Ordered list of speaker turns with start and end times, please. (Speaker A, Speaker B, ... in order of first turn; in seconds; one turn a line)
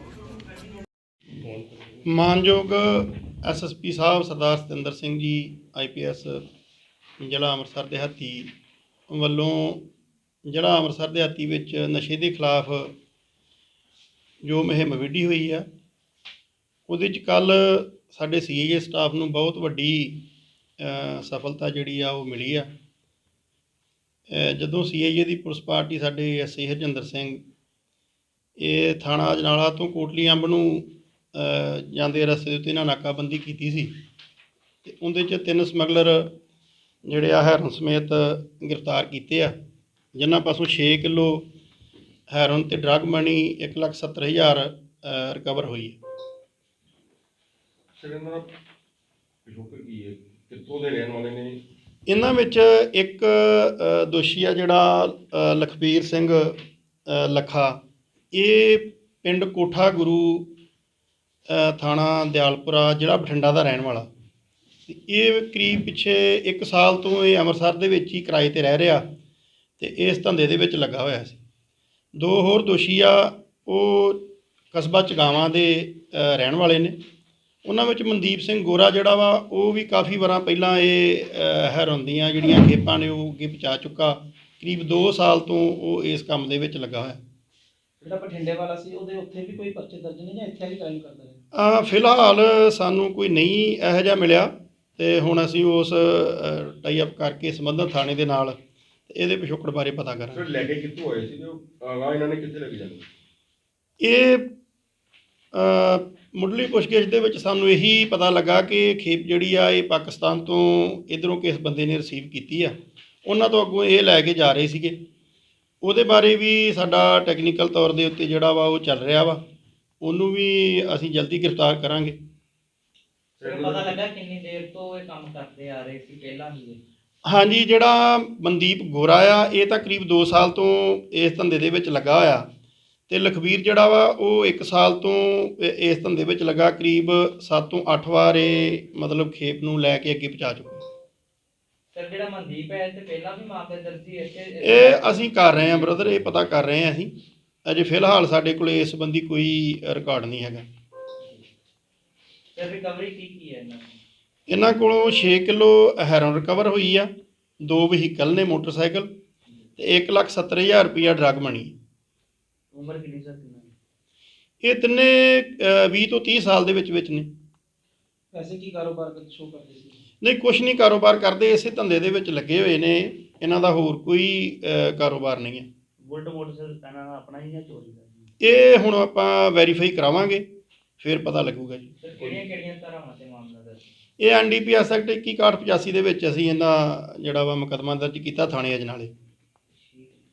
Speaker A: 1.3-2.0
Speaker B: 2.1-6.4
Speaker B: 7.2-8.5
Speaker B: 9.1-9.8
Speaker B: 10.5-12.9
Speaker B: 14.4-15.7
Speaker B: 16.9-20.2
Speaker B: 20.8-22.7
Speaker B: 24.3-27.4
Speaker B: 28.6-33.9
Speaker B: 34.8-36.3
Speaker B: 37.1-39.5
Speaker B: 40.1-41.5
Speaker B: 42.3-46.0
Speaker A: 47.9-48.5
Speaker A: 49.5-51.6
Speaker B: 52.1-57.8
Speaker B: 58.3-60.5
Speaker B: 61.5-64.1
Speaker B: 64.9-69.0
Speaker B: 69.8-71.4
Speaker B: 72.2-77.0
Speaker B: 77.7-87.2
Speaker C: 88.0-91.4
Speaker B: 91.5-98.6
Speaker B: 99.1-100.4
Speaker A: 100.3-103.1
Speaker B: 104.0-104.5
Speaker B: 105.5-112.7
Speaker B: 113.2-115.0
Speaker B: 115.8-119.4
Speaker B: 120.0-122.2
Speaker A: 123.4-124.0
Speaker D: 123.4-126.8
Speaker B: 127.3-132.4
Speaker B: 133.1-140.8
Speaker D: 141.9-146.3
Speaker B: 144.6-147.1
Speaker B: 147.7-150.7
Speaker D: 152.5-154.0
Speaker B: 154.5-157.1
Speaker B: 157.6-159.1
Speaker B: 159.8-161.7
Speaker D: 162.7-163.7
Speaker B: 164.6-167.3
Speaker C: 168.3-170.0
Speaker B: 170.2-175.7
Speaker D: 176.0-178.2
Speaker B: 178.4-180.4
Speaker B: 181.0-181.9
Speaker D: 182.0-183.8
Speaker A: 182.2-182.4
Speaker B: 184.2-189.1
Speaker D: 189.7-190.2